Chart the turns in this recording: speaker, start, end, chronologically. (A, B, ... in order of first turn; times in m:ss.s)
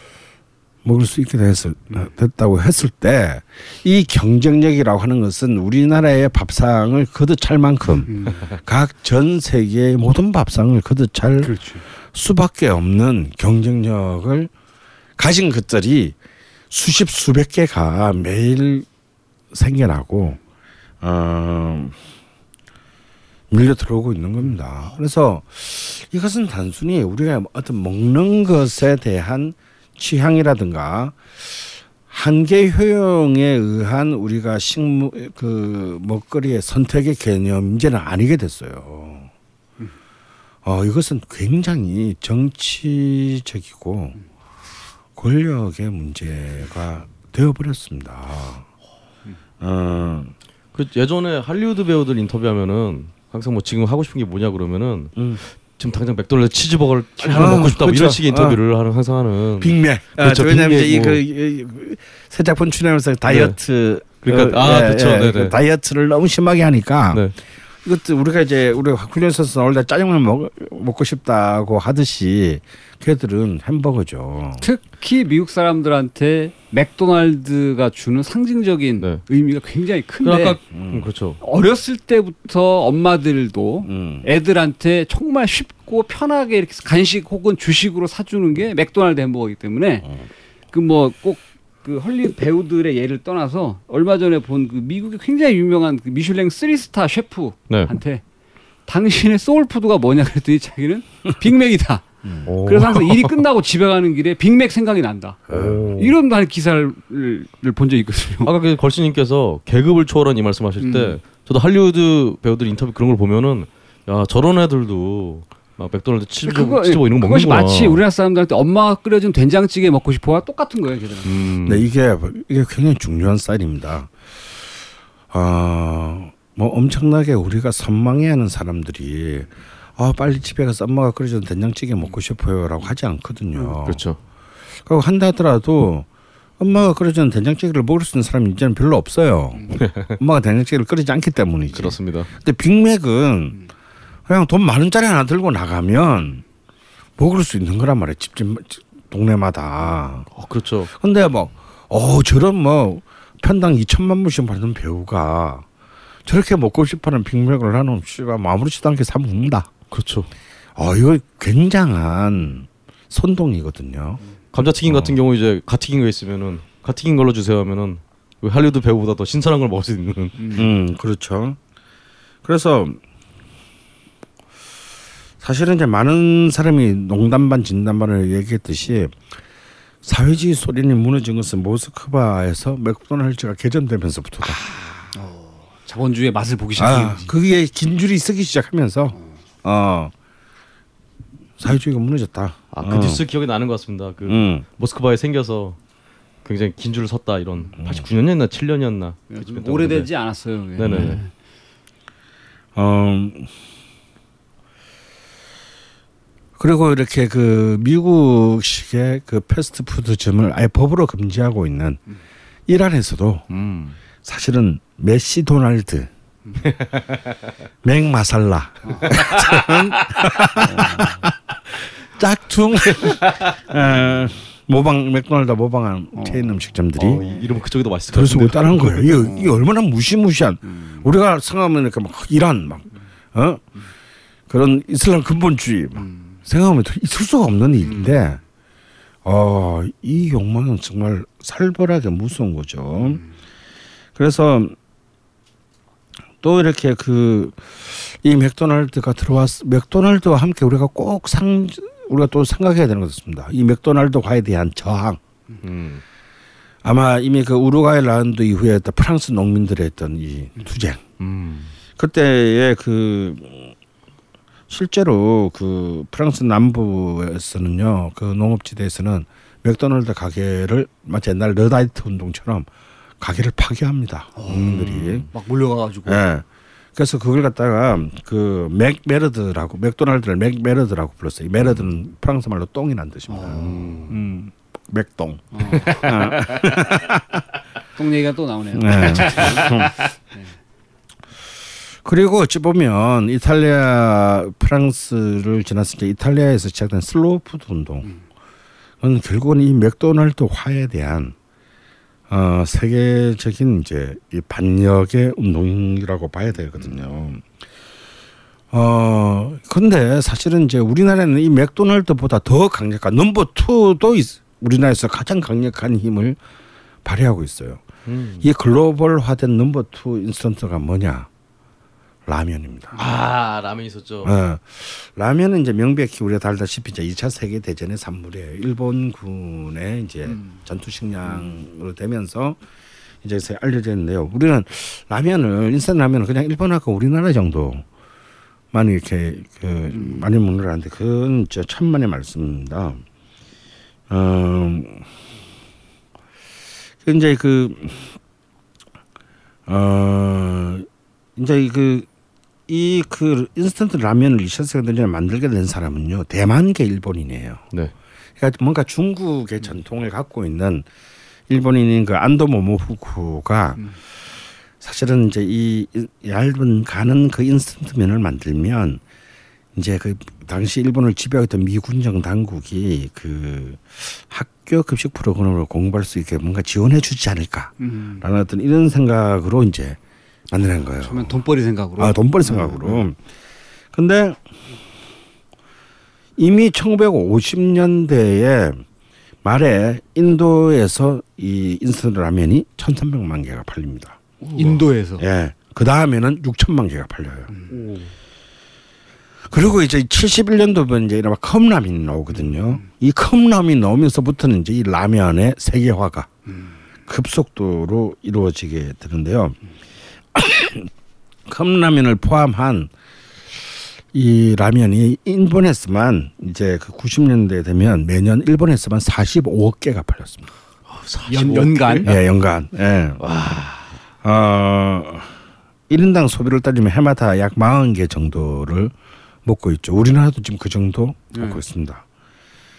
0:00.8-0:14.5 A
0:08.1-0:08.5 B
0:11.4-0:11.8 B
0:15.2-0:16.2 A
0:16.7-0:18.9 A
0:19.5-0:20.4 A
0:21.0-0:22.0 A
0:23.5-0:39.3 A
0:40.6-0:44.2 A
0:45.2-0:48.7 A
0:49.6-0:50.3 A
0:50.7-1:01.2 C
0:57.2-0:58.6 A
0:59.6-1:07.3 A
1:03.3-1:03.6 C
1:04.2-1:05.6 C
1:07.8-1:14.6 A
1:14.6-1:20.6 B
1:20.2-1:21.4 C
1:20.7-1:21.1 A
1:21.4-1:30.1 B
1:23.8-1:24.3 A
1:30.7-1:38.2 B
1:38.9-1:42.0 B
1:42.5-1:43.4 C
1:42.6-1:48.5 B
1:45.5-1:46.0 A
1:45.5-1:46.0 C
1:48.4-1:58.0 C
1:50.8-1:51.2 B
1:56.5-2:01.3 B
2:01.2-2:01.9 C
2:01.7-2:04.1 A
2:05.3-2:14.0 A
2:13.6-2:14.2 C
2:14.8-2:16.1 A
2:16.6-2:23.6 A
2:19.8-2:20.1 C
2:21.7-2:22.3 C
2:24.3-2:26.4 A
2:27.2-2:30.3 A
2:30.3-2:30.9 C
2:30.9-2:35.7 A
2:36.3-2:39.7 A
2:39.9-2:40.3 C
2:40.8-2:44.2 A
2:44.5-2:50.4 C
2:44.9-2:45.2 A
2:50.4-2:50.7 B
2:50.6-2:51.6 A
2:52.4-2:53.0 A
2:55.4-2:59.2 A
3:00.0-3:04.7 A
3:05.1-3:07.3 B
3:06.8-3:10.1 A
3:11.6-3:13.2 A
3:12.7-3:15.8 C
3:14.2-3:14.6 A
3:16.4-3:20.1 C
3:17.8-3:18.0 A
3:19.3-3:21.3 B
3:20.8-3:21.2 C
3:20.9-3:21.2 A
3:22.8-3:23.5 A
3:26.6-3:32.0 A
3:32.7-3:33.5 A
3:33.5-3:34.0 C
3:34.2-3:36.1 A
3:37.8-3:41.4 A
3:38.9-3:39.2 B
3:39.1-3:39.8 C
3:40.6-3:41.2 B
3:42.1-3:47.2 A
3:43.1-3:43.4 C
3:46.2-3:46.5 B
3:47.0-3:49.3 C
3:48.1-3:53.6 A
3:50.7-3:51.0 B
3:54.5-3:58.4 A
3:57.9-3:58.2 B
3:59.2-4:03.2 A
4:04.2-4:04.8 A
4:06.4-4:15.2 A
4:15.6-4:16.0 C
4:16.8-4:21.0 A
4:21.2-4:21.7 C
4:22.0-4:23.7 A
4:24.7-4:32.7 A
4:33.2-4:35.3 A
4:34.4-4:34.8 B
4:34.6-4:35.3 C
4:35.3-4:36.3 B
4:36.1-4:43.6 A
4:43.3-4:44.2 B
4:43.5-4:44.2 C
4:44.1-4:47.4 A
4:45.5-4:46.3 B
4:45.8-4:46.4 C
4:48.0-4:50.5 B
4:48.7-4:49.9 A
4:52.0-4:58.1 A
4:59.0-5:01.4 A
5:02.3-5:07.4 A
5:08.7-5:16.4 A
5:17.0-5:17.8 A
5:18.1-5:18.5 C
5:18.4-5:21.3 A
5:22.3-5:23.0 A
5:22.9-5:24.3 C
5:24.2-5:32.6 A
5:33.2-5:37.8 A
5:38.7-5:43.0 A
5:39.9-5:40.2 B
5:44.1-5:45.1 A
5:47.0-5:48.2 A
5:49.7-5:52.1 A
5:52.7-5:57.6 A
5:58.4-6:00.9 A
6:01.5-6:03.9 A
6:04.8-6:09.0 A
6:09.8-6:20.0 A
6:17.8-6:18.2 B
6:20.5-6:21.3 A
6:21.0-6:23.0 B
6:22.0-6:23.2 A
6:23.9-6:24.4 A
6:26.4-6:28.8 A
6:29.4-6:37.5 A
6:34.5-6:35.2 B
6:39.5-6:46.3 A
6:47.1-6:49.6 A
6:50.3-6:50.9 A
6:51.5-6:52.9 A
6:54.1-7:00.5 A
7:00.9-7:02.2 C
7:01.3-7:02.2 B
7:02.0-7:03.2 A
7:03.2-7:03.9 C
7:04.2-7:05.4 A
7:05.9-7:08.9 A
7:09.4-7:12.0 A
7:11.3-7:11.6 B